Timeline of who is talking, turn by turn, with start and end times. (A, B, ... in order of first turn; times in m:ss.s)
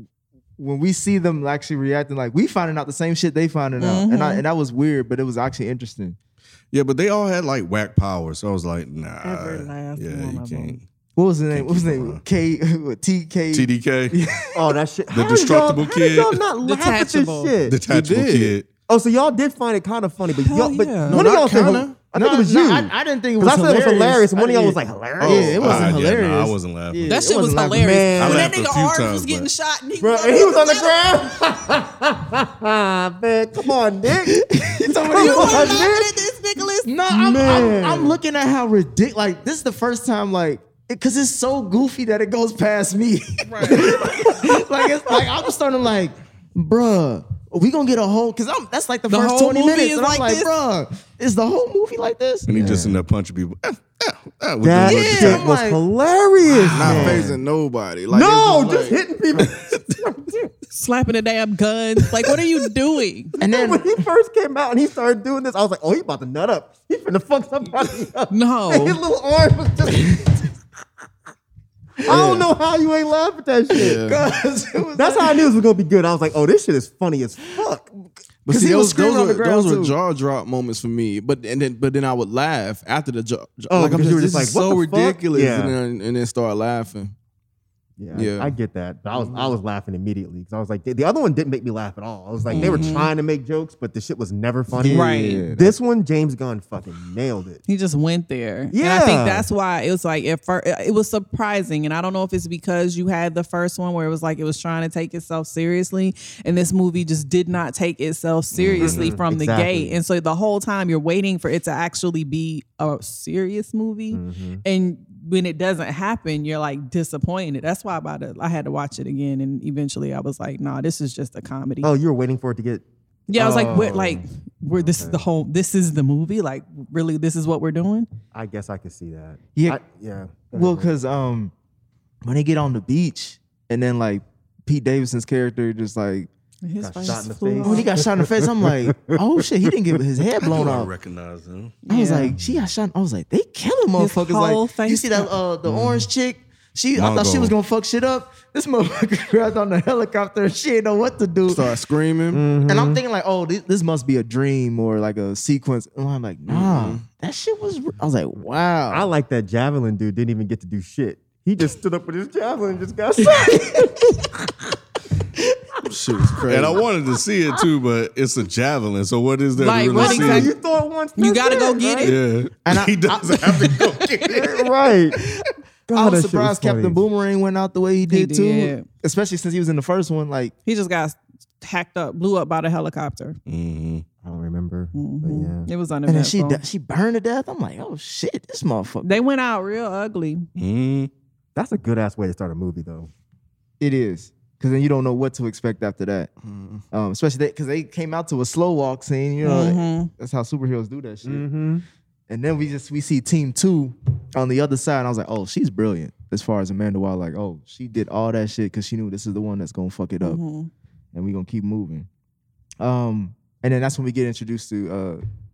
0:00.6-0:06.2 A
0:03.8-0:04.4 B
0:06.7-0:10.8 C
0:09.2-0:10.8 B
0:11.2-0:14.7 A
0:11.5-0:12.2 C
0:13.5-0:14.2 C
0:14.5-0:17.8 D
0:15.1-0:16.4 C
0:16.6-0:17.5 B
0:17.7-0:18.7 C
0:17.8-0:18.5 E
0:18.9-0:25.9 D
0:20.4-0:21.2 B
0:21.1-0:22.0 E
0:21.6-0:28.0 A
0:25.2-0:25.8 E
0:25.6-0:27.1 C
0:27.1-0:31.2 B
0:27.7-0:28.6 D
0:28.2-0:29.5 C
0:30.0-0:34.4 D
0:34.3-0:36.0 A
0:35.0-0:36.0 D
0:35.1-0:36.9 B
0:36.8-0:52.8 A
0:37.1-0:38.2 D
0:43.4-0:44.5 B
0:49.1-0:50.5 B
0:52.5-0:55.4 C
0:52.5-0:53.0 D
0:54.6-0:57.4 D
0:54.8-0:55.8 A
0:56.7-0:57.3 C
0:56.7-0:59.0 E
0:58.1-1:00.5 D
1:00.7-1:03.3 B
1:03.4-1:04.0 A
1:03.4-1:10.5 D
1:08.3-1:09.0 B
1:12.0-1:14.2 D
1:12.1-1:12.4 A
1:13.7-1:14.2 E
1:13.8-1:15.4 A
1:14.9-1:17.9 D
1:18.5-1:27.1 E
1:18.5-1:20.0 A
1:23.7-1:25.8 D
1:28.0-1:37.6 D
1:28.1-1:28.5 E
1:29.1-1:29.5 E
1:32.5-1:33.1 B
1:32.6-1:32.8 C
1:34.7-1:35.7 A
1:34.9-1:35.4 B
1:37.7-2:01.9 B
1:38.7-1:39.5 D
1:48.6-1:49.1 C
1:48.6-1:50.0 D
1:54.1-1:54.6 D
2:01.8-2:05.2 D
2:03.3-2:08.1 B
2:08.3-2:10.9 D
2:10.5-2:11.5 A
2:12.2-2:16.3 A
2:16.6-2:17.9 B
2:16.8-2:19.7 D
2:17.6-2:20.9 A
2:20.4-2:21.8 C
2:21.8-2:22.3 B
2:21.9-2:31.7 A
2:24.0-2:25.3 B
2:25.6-2:26.0 D
2:26.9-2:27.5 C
2:31.5-2:32.5 E
2:32.3-2:33.0 D
2:32.6-2:39.1 A
2:36.5-2:37.1 E
2:38.9-2:44.4 D
2:43.3-2:43.7 A
2:45.8-2:46.8 E
2:46.5-2:50.5 C
2:49.6-2:50.5 B
2:49.9-2:52.2 D
2:51.2-2:52.1 B
2:52.0-2:54.4 C
2:52.6-2:54.5 A
2:54.2-2:55.2 D
2:55.4-3:00.5 A
2:55.9-2:57.0 D
2:58.0-2:58.8 B
3:00.6-3:03.4 B
3:03.5-3:04.0 C
3:04.2-3:05.7 D
3:04.9-3:06.6 B
3:06.1-3:09.1 A
3:09.0-3:10.5 B
3:10.6-3:11.1 C
3:11.5-3:13.1 D
3:13.8-3:16.3 A
3:16.4-3:16.8 E
3:16.9-3:21.5 A
3:19.4-3:20.1 B
3:21.2-3:21.8 D
3:22.3-3:30.4 A
3:30.2-3:30.7 B
3:31.1-3:32.1 A
3:32.8-3:35.2 A